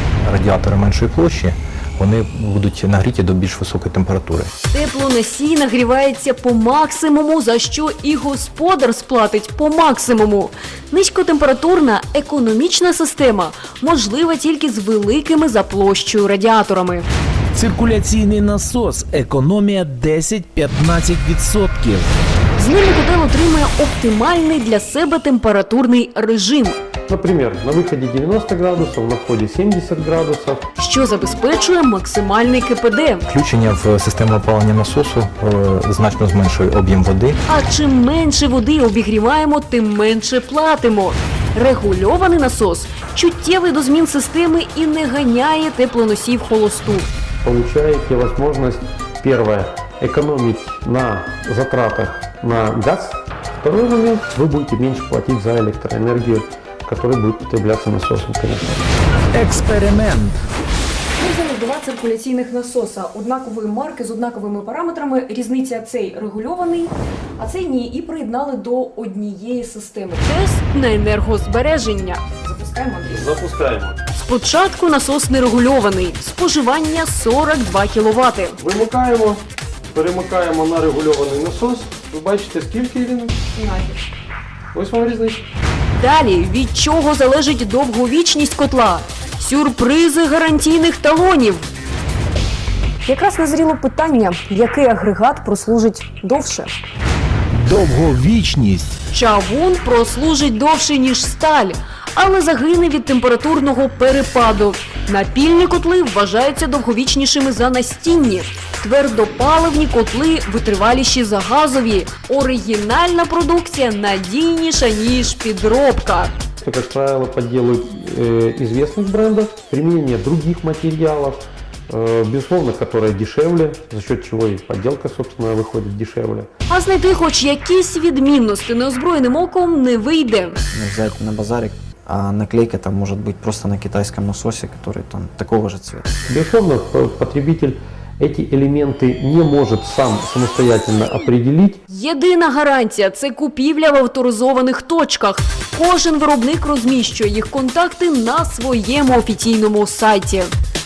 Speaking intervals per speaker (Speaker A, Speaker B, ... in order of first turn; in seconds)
Speaker A: 0.2-4.5, 33.3-37.4
Speaker B: 4.7-17.1, 22.6-26.8, 30.8-33.2, 37.5-47.1, 70.2-72.2, 74.1-78.6, 86.0-91.7, 99.1-116.3, 126.7-130.6, 141.9-150.5
Speaker C: 17.5-22.1, 59.3-60.5, 97.5-99.0
Speaker D: 27.1-30.6, 47.4-58.8, 73.1-74.0, 78.6-79.4, 79.9-83.4, 84.8-85.4, 116.6-126.5, 136.3-141.8
Speaker E: 61.2-70.3, 72.4-73.4, 83.5-84.0, 93.1-96.7
Speaker F: 130.7-136.1